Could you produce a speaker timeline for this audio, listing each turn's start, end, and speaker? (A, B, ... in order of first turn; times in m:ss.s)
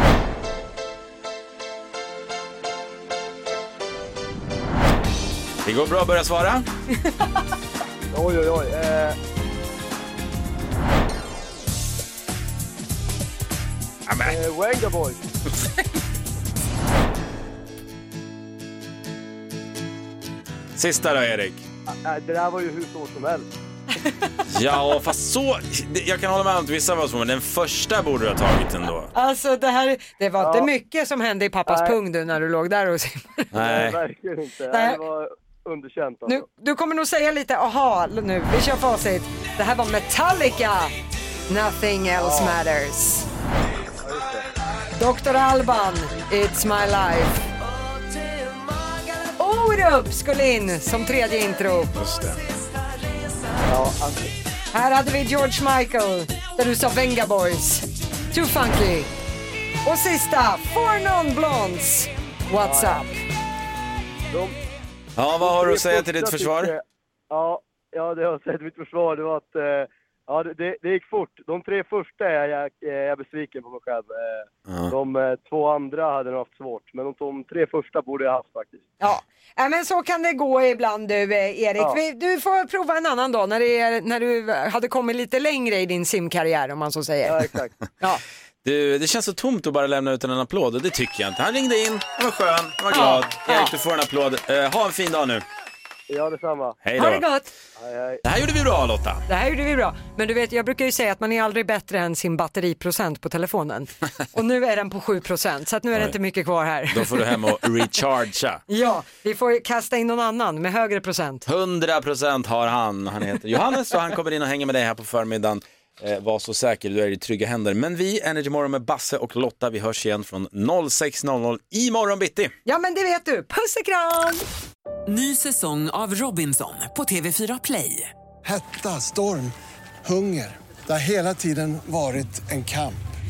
0:05.6-0:06.7 A
0:08.1-0:09.2 B
0:14.1-0:14.4 A
0:14.2-0:15.2 B
0:20.8-0:21.6 A
0:22.0-0:23.4 B
0:24.0-0:24.3 C
0:24.5-0:29.1 A
0:29.1-0:33.5 C
0:30.4-0:30.7 B
0:31.7-0:32.0 B
0:33.5-0:34.0 A
0:33.6-0:36.4 B
0:34.7-0:35.0 C
0:36.3-0:40.9 C
0:41.5-0:43.3 C
0:42.2-0:42.6 B
0:44.0-0:44.4 B
0:45.0-0:47.4 C
0:49.4-0:52.0 C
0:52.0-0:52.4 A
0:53.6-0:54.3 B
0:54.7-0:59.1 C
0:59.8-1:03.1 C
1:02.6-1:03.1 B
1:05.2-1:06.7 A
1:05.4-1:18.9 B
1:14.7-1:14.9 A
1:19.0-1:27.5 C
1:27.3-1:27.7 B
1:28.6-1:35.4 A
1:32.9-1:33.7 C
1:36.1-1:36.8 B
1:36.8-1:37.2 A
1:37.0-1:37.5 C
1:37.8-1:38.2 B
1:38.2-1:39.2 A
1:39.3-1:47.2 C
1:46.9-1:48.6 A
1:48.7-1:51.4 C
1:51.5-2:02.5 A
2:02.7-2:04.4 C
2:05.1-2:08.1 D
2:08.4-2:13.0 E